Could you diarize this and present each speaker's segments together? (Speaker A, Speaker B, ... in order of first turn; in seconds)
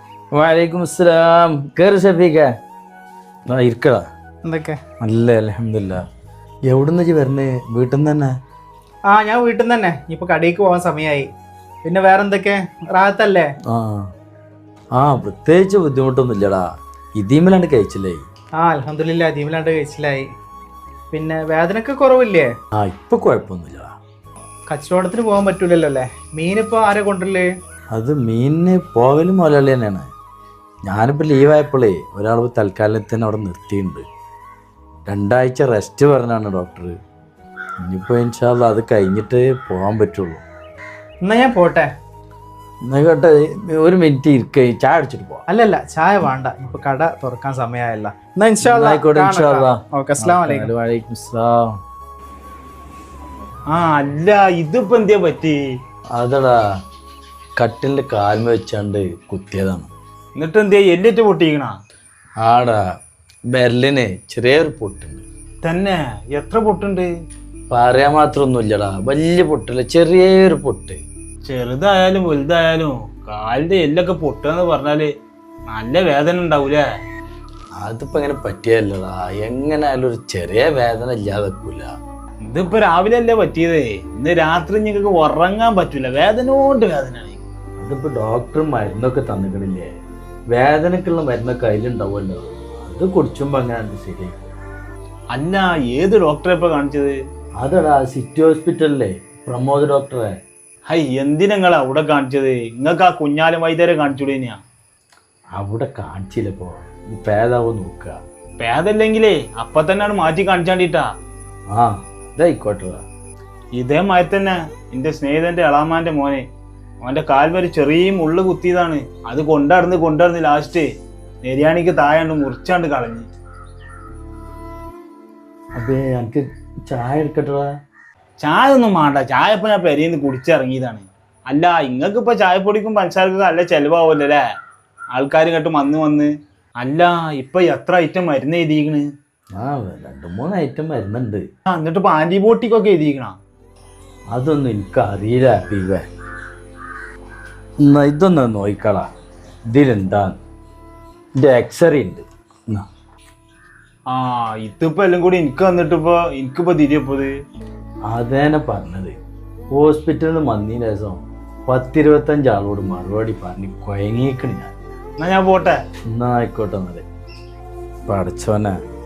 Speaker A: 0.3-2.5, 3.5-4.0, 5.0-6.0, 6.7-8.3, 13.7-14.1, 14.9-16.6, 17.2-18.3, 22.7-23.9, 27.9-30.1, 30.9-34.0, 35.1-37.0, 37.8-40.4, 42.9-45.5, 48.6-51.8, 56.1-56.6, 57.6-59.9, 62.4-62.8, 63.5-65.2, 67.7-71.0, 77.8-81.9, 87.8-89.9, 90.5-94.5, 97.6-100.3, 105.6-108.2, 111.7-113.1, 125.8-127.7, 139.6-141.4, 144.3-146.1, 147.8-149.1, 149.7-150.4, 151.4-152.8, 158.1-159.2, 159.7-164.7, 166.1-167.0, 168.1-168.8
Speaker B: 4.5-4.8, 9.1-11.3, 11.8-13.5, 18.6-20.3, 21.1-22.5, 24.7-27.5, 41.2-41.9, 45.5-50.7
Speaker C: 53.7-55.6, 60.4-61.8, 65.6-67.1, 71.4-75.1, 75.7-76.8, 82.5-87.4, 95.3-97.2, 100.9-104.6, 108.6-111.1, 113.8-116.4, 117.0-120.9, 121.4-123.3, 128.4-134.4, 135.1-139.1, 141.7-143.4, 154.1-157.3, 165.2-165.8